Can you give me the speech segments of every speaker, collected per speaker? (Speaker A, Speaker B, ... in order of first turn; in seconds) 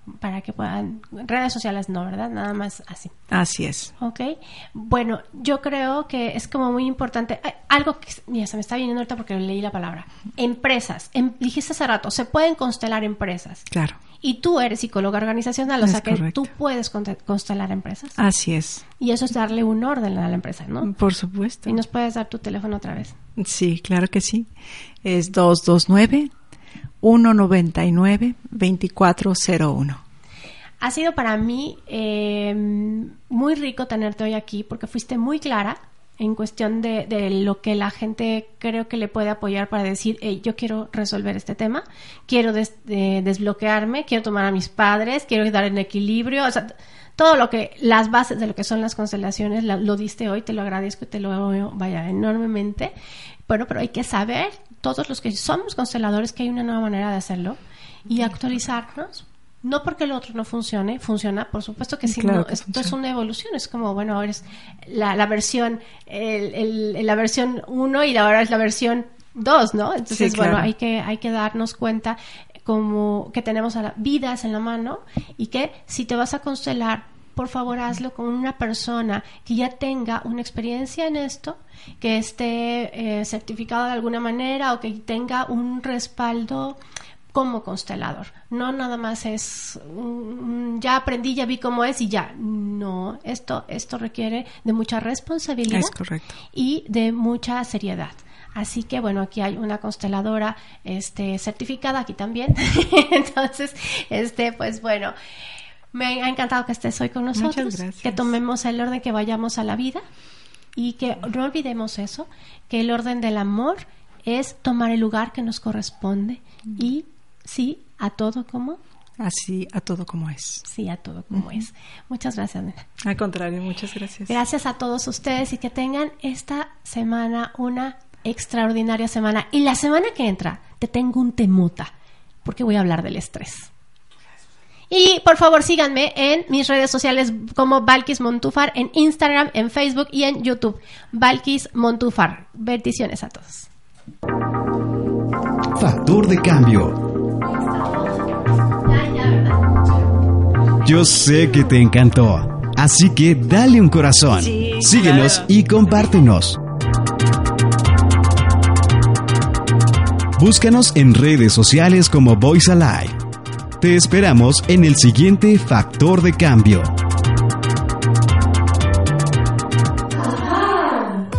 Speaker A: 0.2-3.1, 4.0-13.7, 14.2-18.2, 19.0-20.9, 21.6-23.1, 30.8-52.9, 53.5-86.8, 87.3-95.9, 96.5-105.2, 105.9-110.0, 110.8-118.8, 120.7-122.9, 124.3-131.9, 132.4-133.7, 134.9-143.7, 147.4-150.0
Speaker B: 3.3-3.9, 13.7-14.0, 15.8-16.4, 18.2-18.9, 20.8-21.8, 23.4-24.5, 25.0-26.3, 27.0-30.0, 62.1-63.0, 70.1-70.7, 95.7-96.3, 107.3-108.3, 119.2-120.7, 123.0-124.3, 154.3-155.5
Speaker C: 145.7-147.0, 150.8-156.6, 160.4-163.2, 163.8-166.9